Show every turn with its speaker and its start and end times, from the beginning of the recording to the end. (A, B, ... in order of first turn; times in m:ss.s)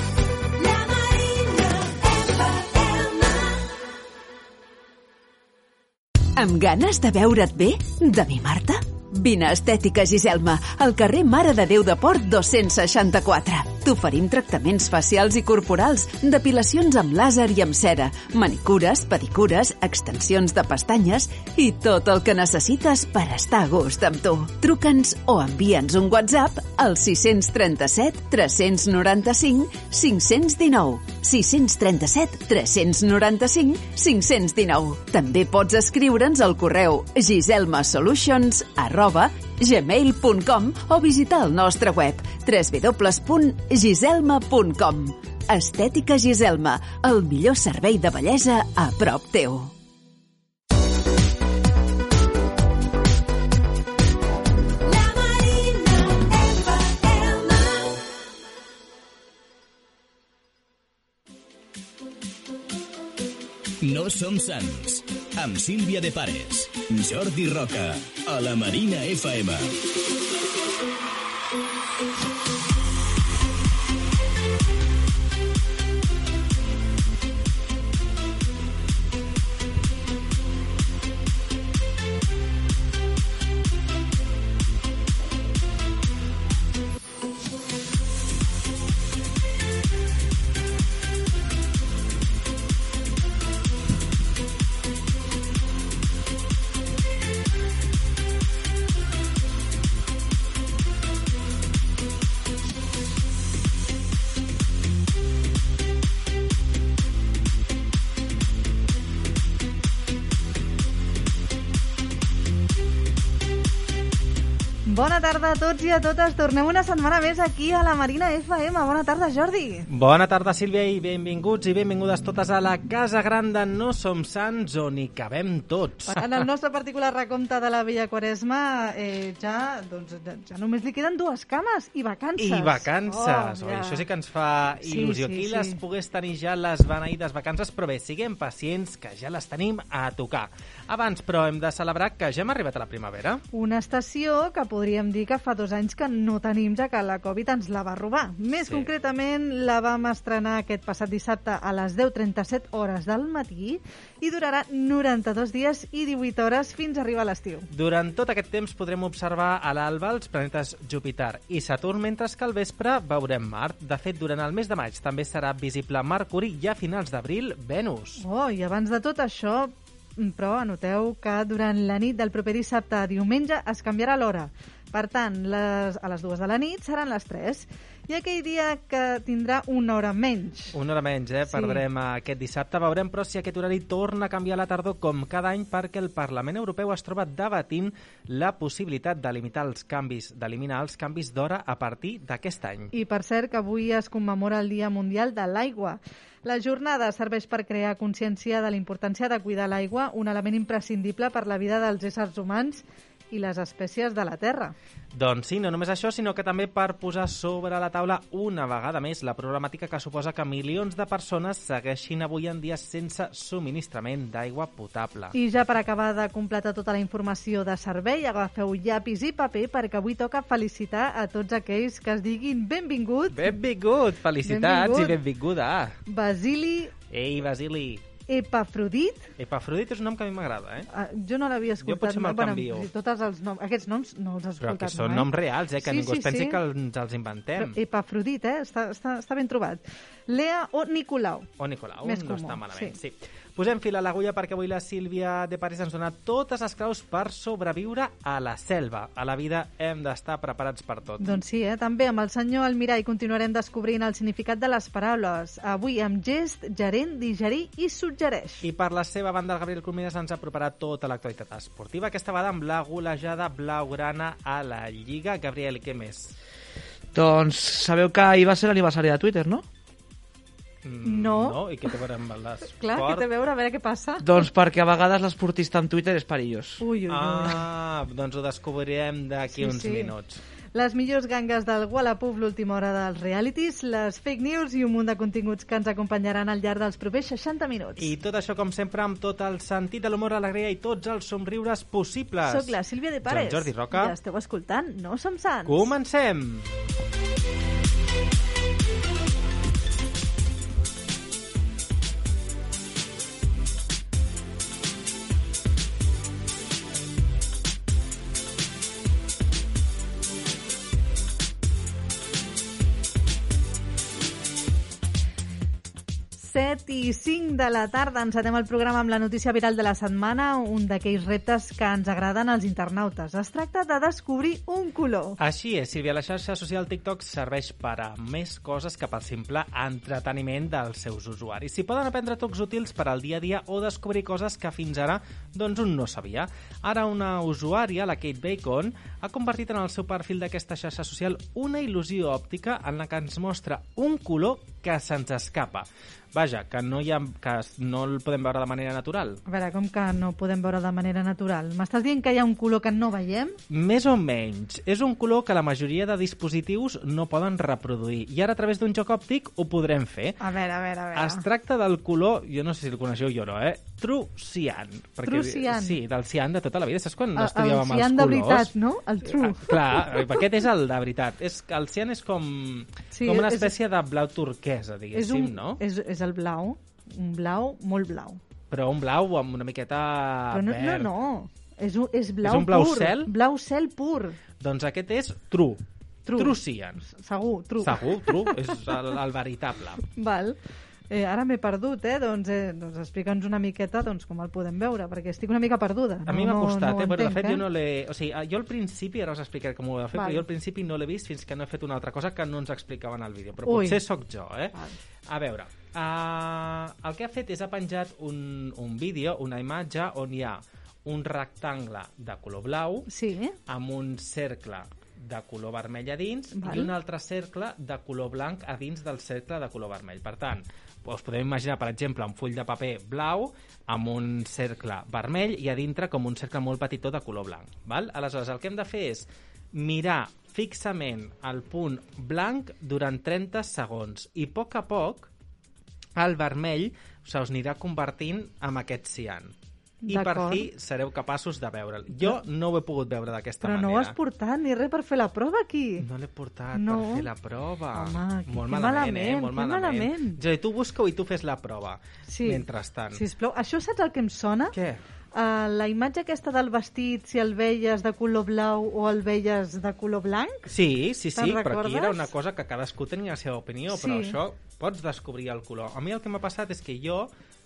0:00.6-0:03.7 A
0:06.4-0:49.8 A
0:54.8-0:58.0 A
1:03.8-1:09.8 B
1:54.9-1:59.9 C
1:59.9-2:06.4 D
2:06.1-2:14.1 C
2:12.4-2:23.4 D
2:14.8-2:15.8 C
2:23.5-2:37.7 C
2:28.6-2:28.9 D
2:37.7-2:48.2 D
2:48.2-3:00.8 C
3:00.7-3:12.9 D
3:01.5-3:01.8 C
3:12.9-3:24.7 C
3:25.1-3:35.4 D
3:35.3-3:43.5 C
3:43.3-3:46.0 D
3:44.4-3:45.2 C
3:46.1-3:46.9 C
3:47.1-3:48.0 D
3:48.3-3:49.3 C
3:49.4-3:50.9 D
3:50.9-3:56.6 C
3:51.8-3:52.9 D
3:54.6-3:57.8 D
3:57.6-4:01.5 C
4:01.6-4:11.4 D
4:02.0-4:03.0 C
4:11.2-4:18.6 C
4:18.6-4:26.4 D
4:27.1-4:29.7 E
4:30.8-4:33.3 D
4:31.0-4:31.6 C
4:32.8-4:34.2 C
4:34.2-4:36.8 E
4:36.8-4:37.6 C
4:37.1-4:40.4 D
4:39.5-4:40.1 C
4:40.8-4:48.1 C
4:48.0-4:54.2 D
4:52.5-4:55.9 C
4:55.7-4:56.7 D
5:16.4-5:25.4 C
5:25.4-5:49.4 D
5:49.5-5:53.6 C
5:53.7-6:00.4 D
6:00.4-6:01.4 C
6:01.1-6:08.7 D
6:05.3-6:06.0 C
6:07.4-6:10.4 C
6:09.2-6:15.8 D
6:13.1-6:13.7 C
6:15.1-6:18.4 C
6:18.7-6:21.1 D
6:20.5-6:24.4 C
6:22.4-6:23.3 D
6:24.6-6:27.0 D
6:26.2-6:28.6 C
6:27.8-6:30.0 D
6:30.1-6:30.6 C
6:31.1-6:37.6 C
6:36.3-6:53.1 D
6:40.1-6:40.4 C
6:43.7-6:44.0 C
6:53.1-6:53.6 C
6:53.7-7:15.3 D
6:56.6-6:56.9 C
7:16.2-7:19.5 D
7:20.0-7:20.7 C
7:20.1-7:24.2 D
7:23.6-7:26.1 C
7:26.0-7:33.2 D
7:26.7-7:27.3 C
7:27.9-7:30.4 C
7:32.3-7:34.8 C
7:34.7-7:35.0 D
7:35.3-7:40.7 C
7:40.7-7:47.3 D
7:41.4-7:42.3 C
7:43.9-7:44.4 C